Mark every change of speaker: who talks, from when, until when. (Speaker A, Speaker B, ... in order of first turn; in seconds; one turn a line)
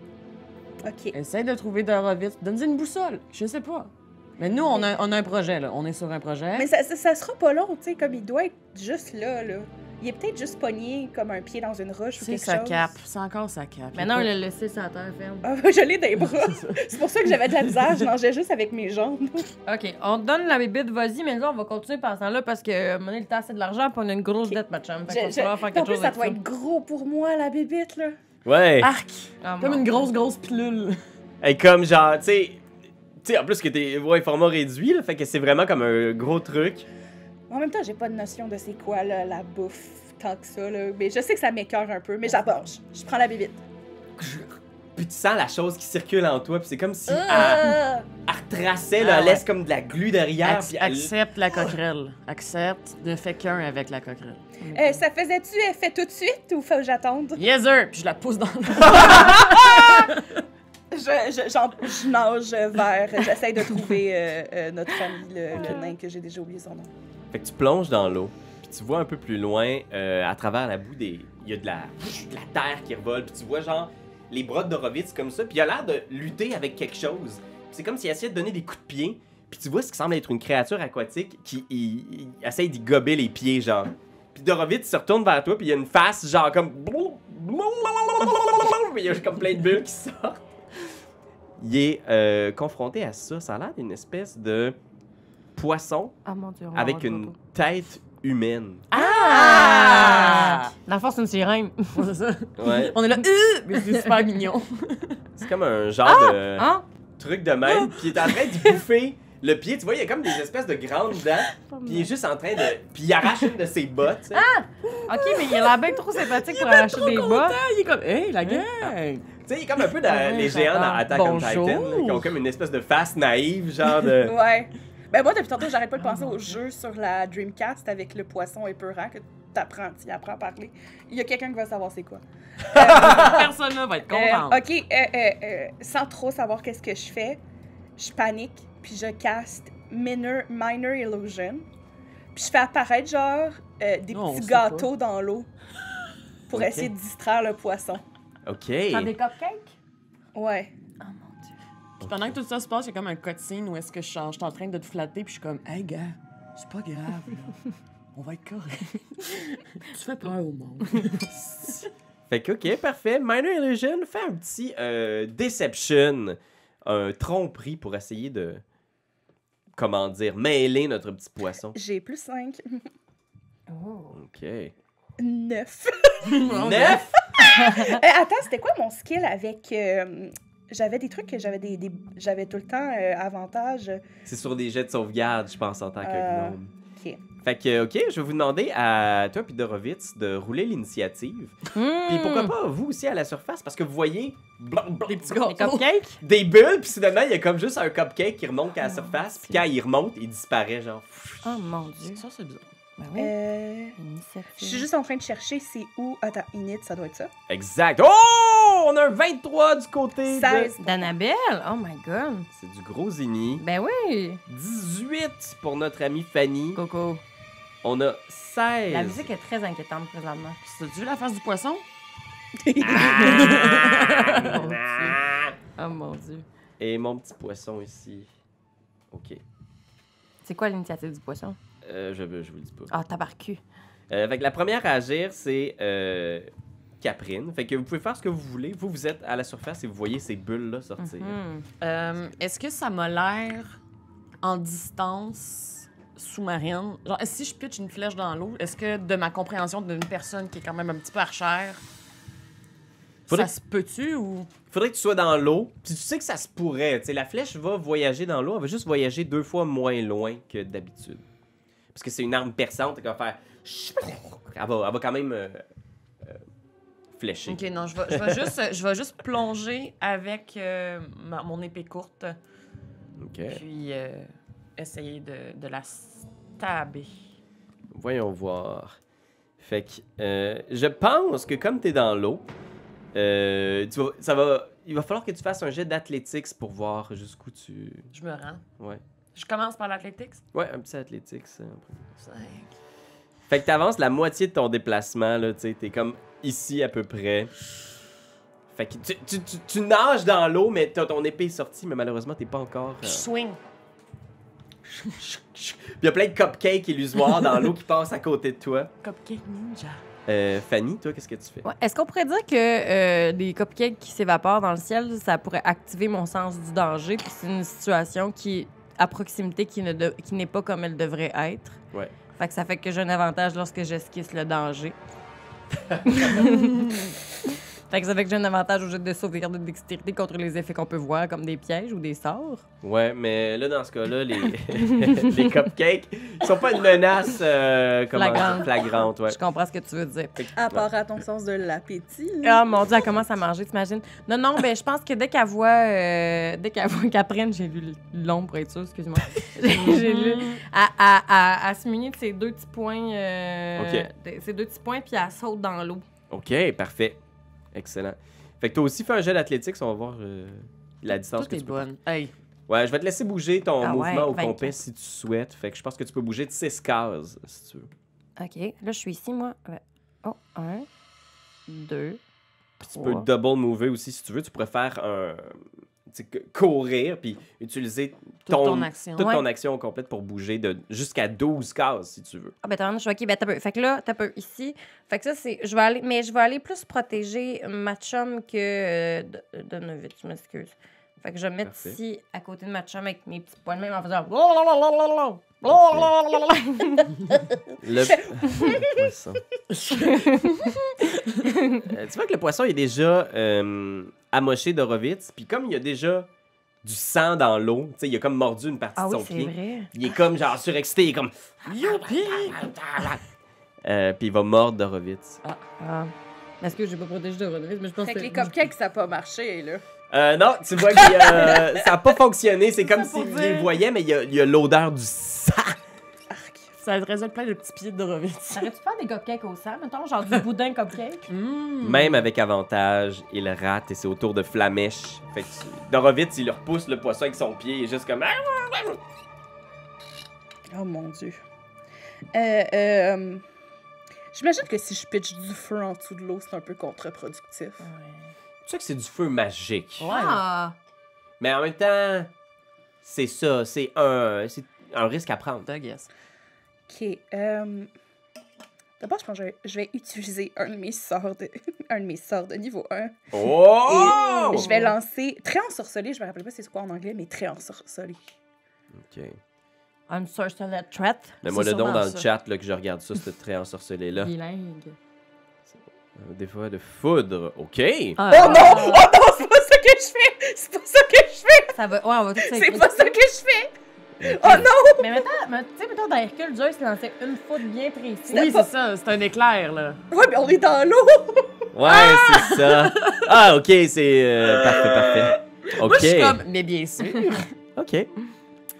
Speaker A: 0.8-1.1
Speaker B: 1.1-6.7
Speaker A: 6.5-12.9
Speaker B: 12.2-14.3
Speaker C: 13.9-15.5
Speaker A: 15.4-19.5
Speaker B: 16.3-17.0
Speaker C: 19.6-26.4
Speaker A: 24.5-28.2
Speaker D: 28.4-28.9
Speaker B: 28.8-31.0
Speaker C: 29.4-30.1
Speaker D: 31.4-32.6
Speaker D: 33.2-36.9
Speaker A: 37.5-43.6
Speaker D: 44.2-51.1
Speaker A: 47.1-48.0
Speaker B: 49.0-49.5
Speaker B: 50.4-54.4
Speaker C: 54.6-55.0
Speaker A: 54.7-57.4
Speaker B: 57.4-60.4
Speaker D: 58.9-59.8
Speaker A: 60.9-66.9
Speaker C: 65.5-65.9
Speaker D: 67.3-90.4
Speaker D: 91.6-94.8
Speaker D: 95.5-96.1
Speaker C: 96.2-97.3
Speaker D: 96.7-98.9
Speaker B: 98.9-100.7
Speaker C: 98.9-102.0
Speaker B: 101.9-105.2
Speaker D: 102.6-103.0
Speaker C: 103.2-104.3
Speaker D: 105.3-114.5
Speaker C: 106.0-106.8
Speaker B: 107.7-108.3
Speaker C: 111.6-112.1
Speaker C: 114.3-117.6
Speaker B: 114.8-119.3
Speaker C: 118.4-118.7
Speaker D: 119.4-124.3
Speaker C: 120.0-121.0
Speaker B: 120.2-122.3
Speaker A: 124.2-133.5
Speaker C: 126.0-126.6
Speaker B: 132.7-134.6
Speaker A: 134.1-137.4
Speaker A: 138.0-141.7
Speaker A: 142.3-145.5
Speaker B: 144.1-144.9
Speaker A: 146.5-148.0
Speaker D: 146.5-146.9
Speaker D: 148.4-149.1
Speaker C: 148.9-149.7
Speaker A: 150.3-150.7
Speaker C: 151.0-151.5
Speaker D: 152.0-152.3
Speaker B: 152.0-157.6
Speaker B: 158.1-161.8
Speaker D: 161.6-168.6
Speaker D: 169.7-171.8
Speaker A: 171.7-172.8
Speaker C: 173.7-174.2
Speaker D: 174.1-174.7
Speaker A: 175.2-176.4
Speaker B: 176.2-177.1
Speaker D: 176.4-177.2
Speaker C: 177.4-178.0
Speaker A: 177.4-184.0
Speaker D: 184.2-186.7
Speaker A: 186.0-187.2
Speaker D: 187.4-195.5
Speaker C: 191.7-192.5
Speaker B: 195.1-195.9
Speaker C: 195.3-196.2
Speaker D: 196.2-201.5
Speaker C: 198.8-199.6
Speaker C: 201.4-202.2
Speaker B: 202.0-202.7
Speaker C: 203.0-203.3
Speaker A: 203.2-203.9
Speaker C: 204.0-204.9
Speaker A: 204.6-207.3
Speaker D: 207.5-210.7
Speaker A: 210.2-211.1
Speaker C: 210.8-212.5
Speaker D: 212.5-213.6
Speaker C: 213.6-214.4
Speaker D: 214.5-216.8
Speaker C: 216.7-217.2
Speaker D: 217.8-219.3
Speaker C: 218.9-220.6
Speaker B: 220.6-221.8
Speaker A: 222.6-223.7
Speaker D: 222.8-225.5
Speaker C: 223.0-225.2
Speaker B: 223.2-224.6
Speaker C: 225.8-226.4
Speaker D: 226.8-228.3
Speaker D: 229.1-229.4
Speaker C: 230.4-231.6
Speaker D: 231.8-232.9
Speaker C: 232.9-233.6
Speaker D: 234.1-241.4
Speaker C: 241.0-241.7
Speaker B: 241.8-243.8
Speaker B: 244.4-251.8
Speaker D: 253.3-253.5
Speaker B: 253.3-254.5
Speaker D: 254.7-261.2
Speaker D: 261.9-265.6
Speaker D: 267.1-268.4
Speaker B: 267.5-272.4
Speaker D: 273.2-273.6
Speaker B: 273.5-277.2
Speaker D: 277.9-279.0
Speaker D: 279.6-282.4
Speaker D: 283.1-288.1
Speaker B: 288.1-288.6
Speaker B: 289.3-290.4
Speaker D: 290.5-292.1
Speaker B: 292.2-292.7
Speaker D: 293.5-297.5
Speaker D: 298.7-303.3
Speaker B: 303.0-303.6
Speaker D: 305.2-308.9
Speaker B: 309.0-310.0
Speaker D: 310.3-311.6
Speaker C: 311.6-321.8
Speaker C: 322.4-324.9
Speaker D: 325.9-326.3
Speaker C: 326.1-332.6
Speaker D: 332.8-339.4
Speaker C: 335.0-335.4
Speaker C: 338.1-340.4
Speaker D: 340.4-340.9
Speaker A: 340.5-342.8
Speaker C: 342.4-356.1
Speaker B: 349.7-350.6
Speaker D: 353.8-354.1
Speaker D: 356.3-357.2
Speaker D: 357.7-361.9
Speaker B: 361.2-362.3
Speaker D: 362.7-367.9
Speaker C: 363.8-364.8
Speaker C: 368.4-370.9
Speaker C: 371.7-372.2
Speaker D: 372.8-382.5
Speaker C: 372.9-373.3
Speaker B: 378.4-379.3
Speaker C: 379.2-379.4
Speaker C: 382.6-397.1
Speaker D: 391.6-392.0
Speaker D: 395.7-396.1
Speaker D: 397.8-399.4
Speaker A: 398.4-399.1
Speaker B: 399.7-401.5
Speaker C: 399.9-400.5
Speaker C: 401.4-401.8
Speaker D: 401.8-406.3
Speaker D: 406.8-411.3
Speaker C: 409.0-409.9
Speaker B: 411.6-413.2
Speaker D: 413.8-415.4
Speaker C: 415.8-418.5
Speaker A: 418.0-419.8
Speaker D: 420.1-425.8
Speaker A: 421.0-421.7
Speaker C: 422.9-423.7
Speaker A: 426.3-426.7
Speaker B: 426.8-428.7
Speaker C: 428.5-431.3
Speaker B: 431.3-432.3
Speaker D: 431.8-439.0
Speaker A: 440.7-441.4
Speaker A: 442.3-443.4
Speaker A: 444.3-447.9
Speaker C: 447.8-448.3
Speaker D: 448.6-450.1
Speaker B: 450.0-450.4
Speaker C: 450.1-450.8
Speaker D: 451.4-452.3
Speaker D: 453.0-455.7
Speaker B: 455.6-456.1
Speaker A: 456.9-457.9
Speaker A: 459.0-463.2
Speaker D: 463.3-464.7
Speaker A: 463.8-468.2
Speaker C: 464.5-464.9
Speaker D: 468.9-469.4
Speaker C: 470.1-472.2
Speaker D: 471.4-474.3
Speaker C: 474.2-475.0
Speaker D: 475.7-478.2
Speaker B: 478.2-479.0
Speaker A: 478.3-481.8
Speaker C: 478.3-479.1
Speaker C: 481.7-483.1
Speaker A: 482.4-485.3
Speaker D: 484.2-484.7
Speaker C: 484.5-488.6
Speaker B: 488.3-490.0
Speaker A: 488.4-488.6
Speaker A: 490.1-491.7
Speaker D: 491.7-496.4
Speaker B: 492.6-493.2
Speaker B: 494.6-497.5
Speaker D: 497.8-498.1